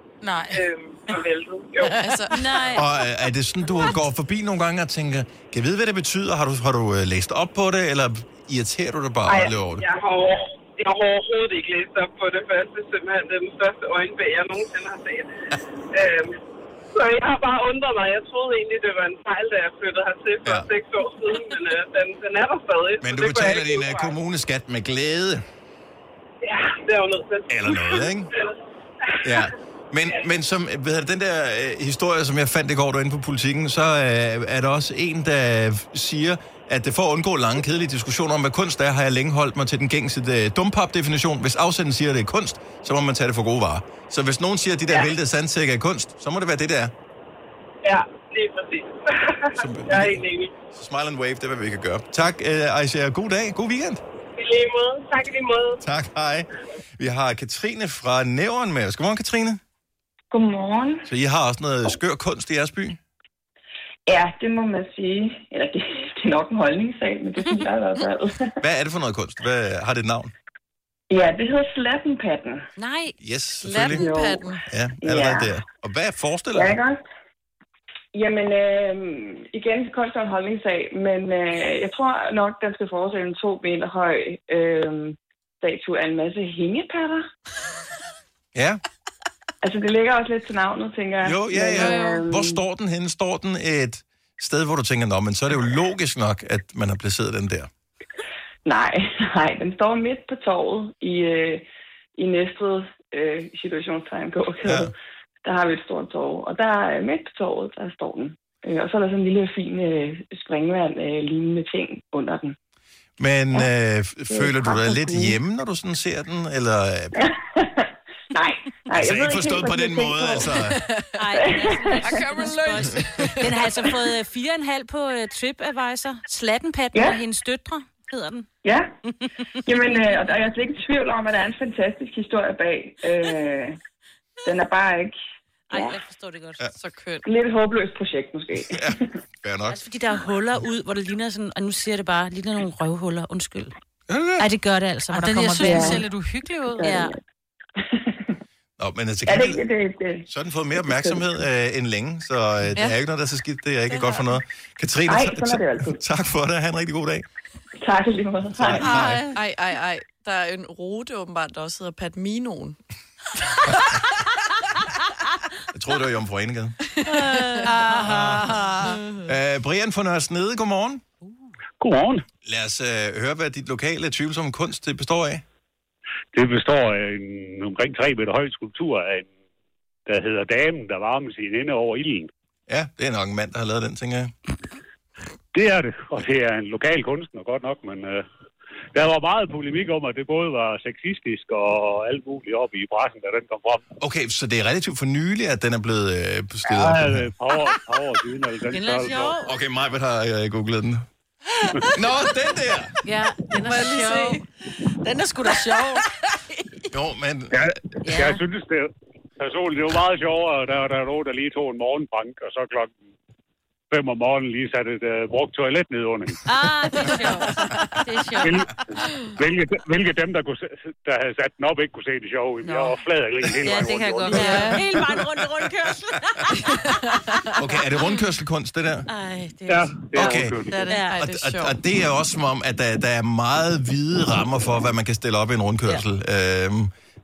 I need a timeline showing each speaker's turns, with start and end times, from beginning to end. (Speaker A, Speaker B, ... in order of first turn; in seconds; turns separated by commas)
Speaker A: 0.2-0.6, Speaker B: 0.5-2.1, Speaker C: 2.0-2.3, Speaker D: 2.3-2.9, Speaker E: 2.7-9.8, Speaker B: 9.3-15.3, Speaker B: 15.9-16.4, Speaker B: 16.9-24.1, Speaker E: 23.0-25.4, Speaker B: 26.4-28.5, Speaker E: 27.5-28.3, Speaker B: 29.1-29.5, Speaker E: 29.2-46.9, Speaker B: 47.8-50.5, Speaker E: 49.6-54.0, Speaker B: 54.4-55.8, Speaker E: 55.8-59.6, Speaker F: 60.3-61.1, Speaker E: 61.0-63.0, Speaker F: 64.1-68.5, Speaker D: 67.4-67.7, Speaker E: 68.6-70.3, Speaker F: 71.1-72.7, Speaker D: 72.8-73.2, Speaker E: 73.2-74.0, Speaker C: 73.6-74.6, Speaker F: 73.9-74.5, Speaker E: 74.7-76.8, Speaker F: 75.0-75.5, Speaker F: 76.5-77.0, Speaker F: 78.1-87.2, Speaker E: 88.5-88.8, Speaker F: 89.6-92.6, Speaker E: 91.2-97.7, Speaker C: 91.7-92.2, Speaker F: 98.7-101.6, Speaker F: 102.2-112.5, Speaker E: 104.7-104.9, Speaker E: 113.2-117.3, Speaker F: 114.3-115.3, Speaker F: 117.2-120.7, Speaker E: 118.9-120.8, Speaker C: 120.6-121.4, Speaker D: 121.2-128.5, Speaker F: 121.3-122.2, Speaker C: 121.9-123.8, Speaker F: 126.9-127.2, Speaker F: 128.6-128.9, Speaker F: 129.7-133.8, Speaker F: 134.4-135.2, Speaker D: 135.7-136.6, Speaker F: 135.7-136.0, Speaker C: 136.8-137.2, Speaker F: 137.2-139.1, Speaker E: 138.7-139.8, Speaker D: 139.7-143.7, Speaker E: 144.1-144.5, Speaker D: 144.4-146.0, Speaker A: 145.1-146.9, Speaker F: 145.6-146.0, Speaker D: 146.8-147.2, Speaker F: 146.8-147.1, Speaker F: 147.8-148.4, Speaker E: 148.8-149.6, Speaker F: 149.3-151.2, Speaker E: 150.3-157.3, Speaker C: 153.9-154.2, Speaker F: 155.1-156.0, Speaker F: 157.8-158.9, Speaker E: 158.6-159.3, Speaker A: 158.8-159.4, Speaker C: 159.3-162.8, Speaker E: 165.7-166.8, Speaker C: 167.0-167.7, Speaker D: 167.1-168.6, Speaker A: 167.6-168.9, Speaker E: 168.1-168.4, Speaker E: 169.2-171.0, Speaker G: 171.8-172.2, Speaker E: 172.4-175.4, Speaker G: 176.3-179.3, Speaker G: 180.1-182.3, Speaker E: 182.7-184.3, Speaker G: 185.5-188.2, Speaker G: 188.9-193.8, Speaker E: 194.0-197.3, Speaker G: 196.7-199.4, Speaker D: 198.7-199.5, Speaker E: 199.4-201.1, Speaker E: 201.9-202.9, Speaker D: 203.0-204.4, Speaker C: 203.7-204.4, Speaker A: 205.0-206.0, Speaker E: 206.9-207.7, Speaker G: 207.6-212.9, Speaker D: 208.0-208.4, Speaker G: 213.9-216.5, Speaker D: 216.4-218.7, Speaker C: 217.2-217.5, Speaker G: 218.4-218.7, Speaker G: 219.4-224.8, Speaker D: 222.6-223.0, Speaker D: 223.6-227.4, Speaker C: 224.3-224.8, Speaker C: 226.8-227.5, Speaker E: 227.6-229.1, Speaker D: 229.1-231.2, Speaker G: 229.7-230.9, Speaker E: 230.2-230.6, Speaker C: 230.9-231.8, Speaker E: 231.2-236.9